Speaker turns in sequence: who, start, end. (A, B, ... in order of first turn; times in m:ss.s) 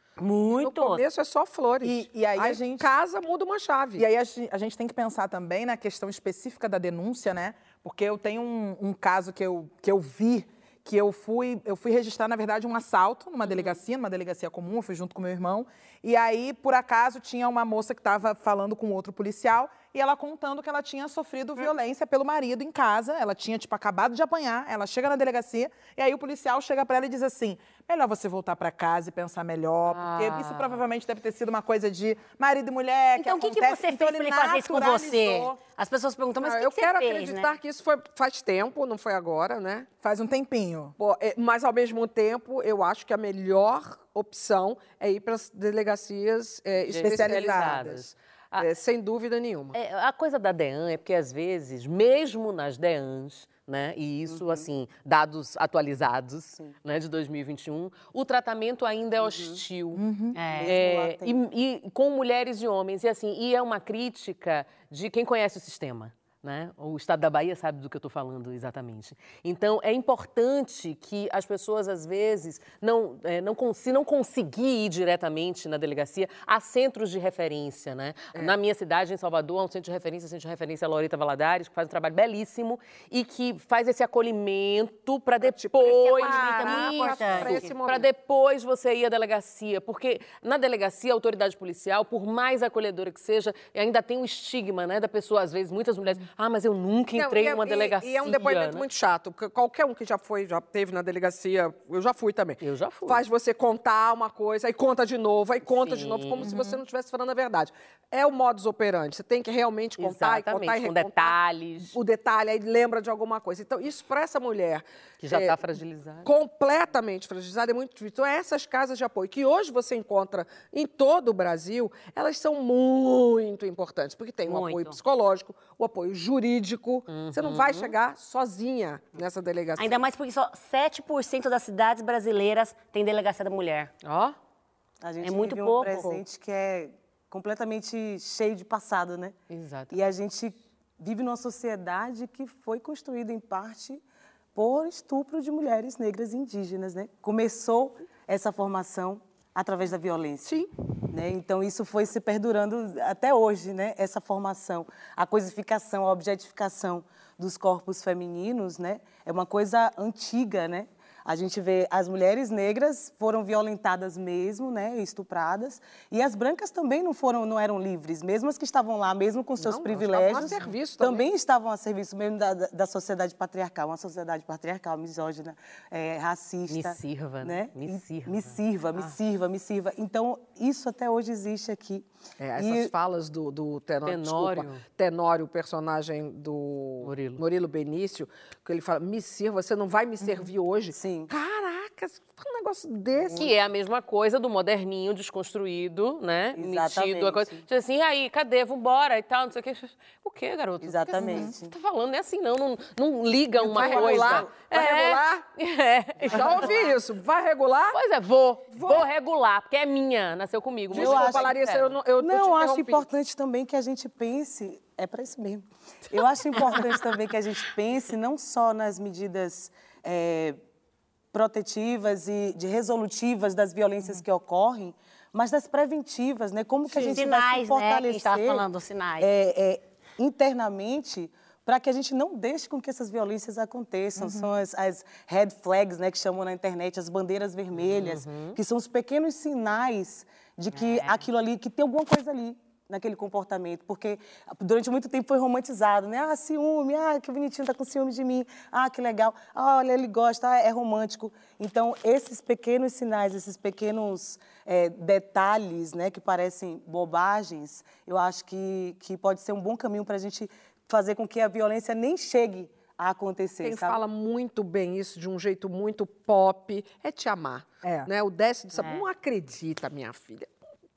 0:00.2-0:01.0 A
0:00.5-0:04.1 B
0:01.8-0:02.9 C
0:04.0-0:35.5 C
0:30.0-0:30.8 D
0:33.2-0:37.5 A
0:36.4-0:39.9 B
0:40.0-0:41.0 C
0:41.0-0:49.8 B
0:46.9-0:48.7 D
0:47.0-0:47.9 C
0:49.7-1:00.0 D
0:54.3-0:54.7 E
0:59.2-0:59.6 E
1:00.0-1:00.4 C
1:00.3-1:00.7 A
1:00.5-1:01.4 E
1:00.6-1:38.8 D
1:25.4-1:28.0 B
1:25.9-1:27.6 A
1:37.2-1:51.4 B
1:42.6-1:43.2 D
1:45.7-1:46.5 D
1:46.4-1:46.8 C
1:50.0-1:52.0 D
1:51.9-1:55.6 B
1:55.2-1:56.3 D
1:56.2-2:09.9 B
2:04.5-2:05.0 A
2:07.1-2:07.9 D
2:09.8-2:13.9 A
2:14.0-2:14.4 D
2:15.0-2:19.4 E
2:15.2-2:16.2 A
2:19.5-2:20.0 D
2:19.9-2:24.0 E
2:24.6-2:30.5 E
2:30.4-2:30.7 B
2:31.1-3:02.9 E
2:49.6-2:51.3 B
2:56.7-2:59.1 D
3:02.4-3:13.5 B
3:04.0-3:04.8 D
3:07.0-3:07.4 D
3:10.9-3:11.3 E
3:13.4-3:27.0 D
3:16.6-3:17.6 E
3:20.8-3:21.8 E
3:23.6-3:25.4 B
3:23.6-3:24.5 E
3:26.3-3:28.0 B
3:27.9-3:31.9 D
3:28.7-3:29.1 B
3:30.9-3:33.0 B
3:30.9-3:31.5 E
3:32.2-3:40.6 E
3:41.3-3:48.6 E
3:47.0-3:49.3 A
3:49.2-4:24.0 E
3:57.9-3:58.6 D
4:00.7-4:01.2 A
4:23.6-4:30.5 B
4:28.8-4:29.0 A